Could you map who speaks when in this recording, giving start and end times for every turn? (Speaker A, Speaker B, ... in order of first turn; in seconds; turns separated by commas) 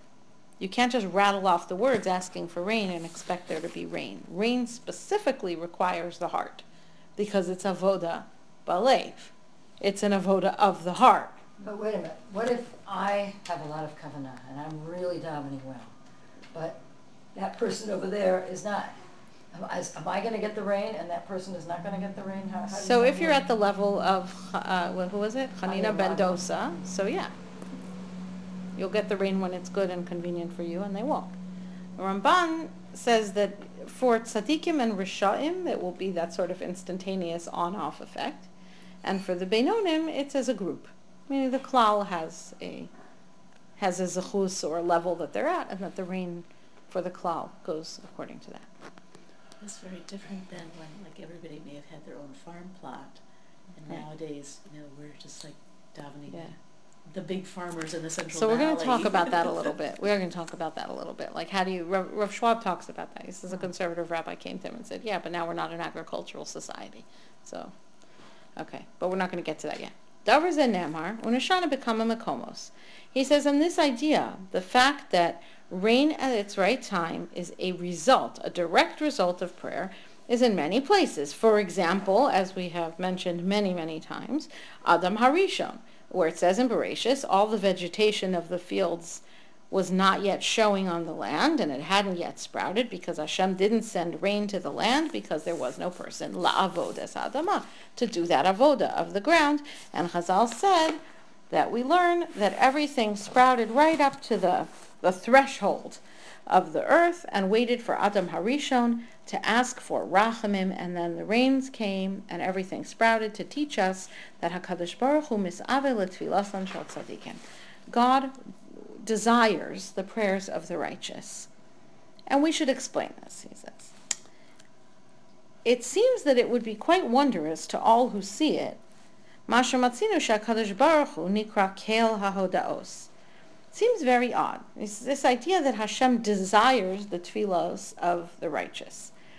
Speaker A: 0.6-6.7, Speaker A: 7.2-11.4, Speaker B: 11.6-15.9, Speaker B: 16.5-16.8, Speaker B: 17.3-19.0, Speaker B: 19.5-23.5, Speaker A: 22.8-27.3, Speaker B: 25.6-26.4, Speaker A: 28.8-31.4, Speaker A: 32.0-38.5, Speaker A: 39.0-42.9, Speaker A: 43.8-48.7, Speaker C: 49.6-53.2, Speaker C: 53.8-56.5, Speaker C: 57.1-59.7, Speaker A: 58.3-67.7, Speaker A: 68.6-121.5, Speaker A: 122.3-123.9, Speaker A: 125.7-128.8, Speaker A: 129.5-133.1, Speaker A: 133.7-139.1